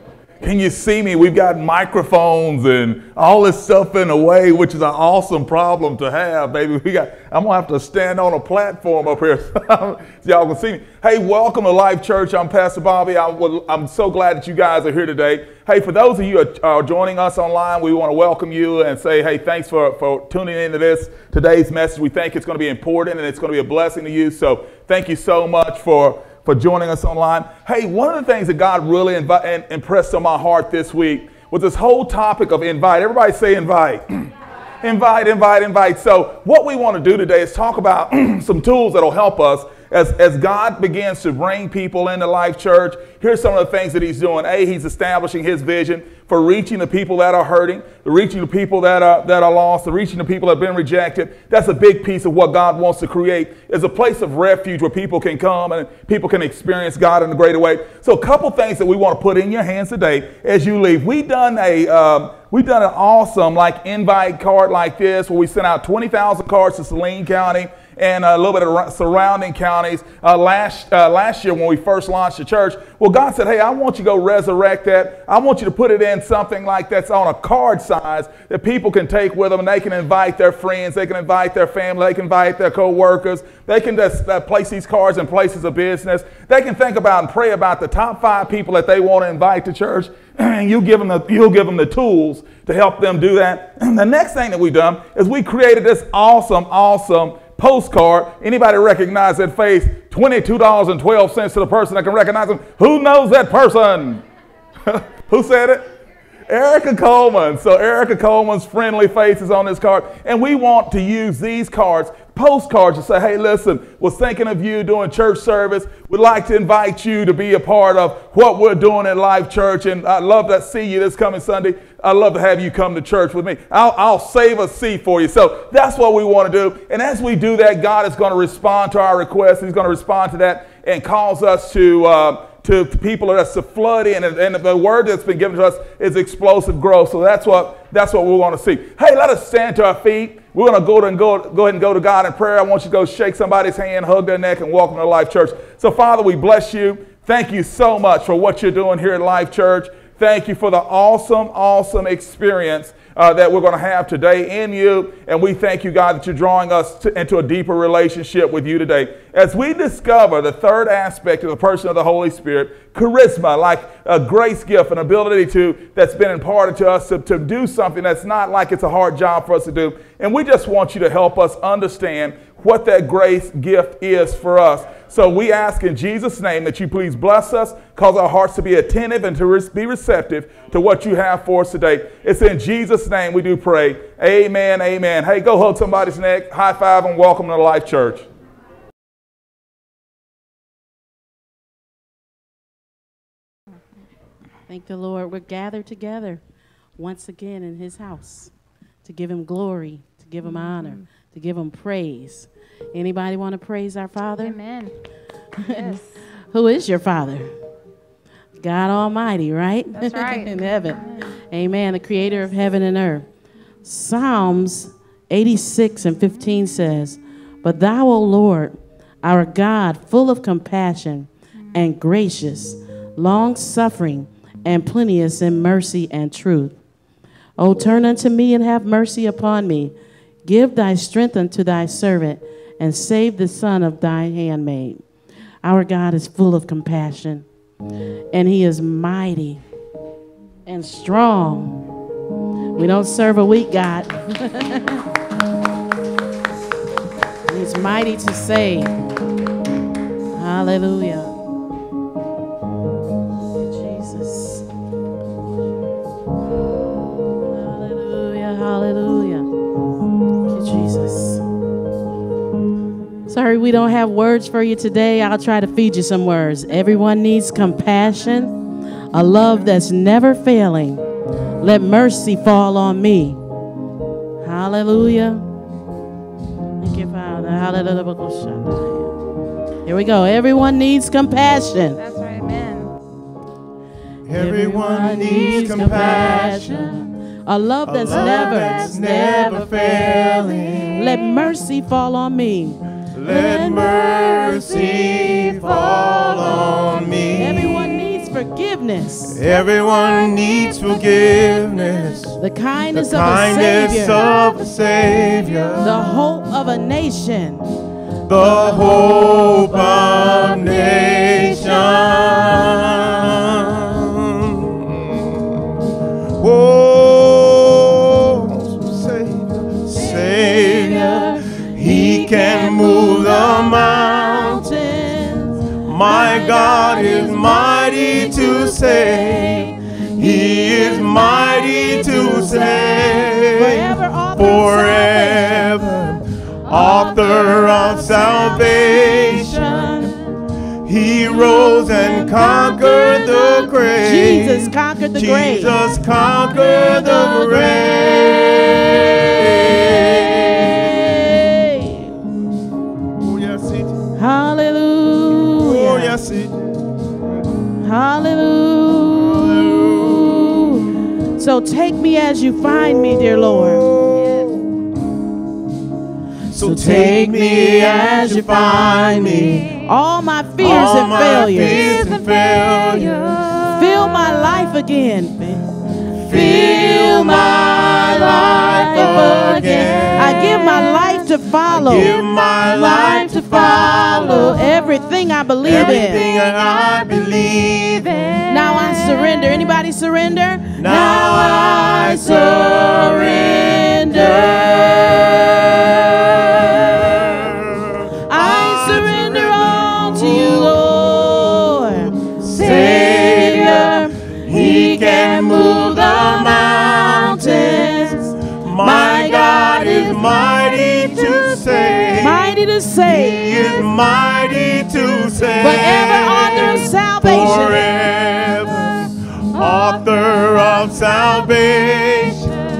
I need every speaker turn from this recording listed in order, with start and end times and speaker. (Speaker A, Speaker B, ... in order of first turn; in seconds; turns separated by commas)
Speaker A: 0.4-34.3, Speaker A: 34.8-104.2, Speaker A: 104.9-105.8, Speaker A: 106.5-188.2, Speaker B: 194.7-196.4, Speaker B: 197.0-198.5, Speaker B: 199.0-204.6, Speaker C: 204.4-204.9, Speaker B: 205.6-206.0, Speaker C: 205.6-206.0, Speaker B: 206.5-207.5, Speaker B: 208.6-211.0, Speaker C: 209.9-210.5, Speaker B: 211.5-213.2, Speaker B: 213.8-226.7, Speaker B: 227.6-229.9, Speaker B: 230.4-235.0, Speaker B: 235.6-237.4, Speaker B: 238.3-239.6, Speaker B: 240.7-241.8, Speaker B: 242.8-245.0, Speaker B: 247.5-248.9, Speaker B: 250.3-251.3, Speaker B: 253.6-254.6, Speaker B: 257.4-259.5, Speaker B: 260.4-261.4, Speaker B: 263.3-268.6, Speaker B: 269.1-271.0, Speaker B: 271.6-273.4, Speaker B: 274.4-275.4, Speaker B: 276.8-279.1, Speaker B: 279.9-282.0, Speaker C: 282.0-282.9, Speaker D: 284.2-286.9, Speaker B: 284.3-296.8, Speaker D: 287.9-291.3, Speaker D: 293.1-298.0, Speaker B: 297.3-301.7, Speaker D: 299.3-302.4, Speaker B: 302.4-304.6, Speaker D: 302.9-306.1, Speaker B: 305.8-307.6, Speaker D: 308.2-315.6, Speaker B: 308.4-313.4, Speaker D: 316.4-324.6, Speaker B: 320.0-335.8, Speaker D: 325.8-339.9, Speaker B: 336.7-340.4, Speaker D: 340.8-351.2, Speaker B: 341.2-345.8, Speaker B: 346.5-352.1, Speaker D: 353.2-354.1, Speaker B: 354.2-356.2, Speaker D: 355.4-356.8, Speaker B: 357.8-363.8, Speaker D: 359.1-360.8, Speaker D: 362.7-364.7, Speaker D: 366.5-369.8, Speaker B: 366.6-372.1, Speaker D: 370.6-373.4, Speaker C: 371.7-374.6, Speaker B: 373.7-375.7, Speaker D: 376.1-380.6, Speaker B: 376.3-386.3, Speaker C: 380.4-381.3, Speaker D: 381.7-384.6, Speaker D: 385.6-388.3, Speaker B: 388.5-397.4, Speaker C: 388.5-389.6, Speaker D: 390.8-422.5, Speaker B: 398.3-413.9, Speaker B: 415.6-417.9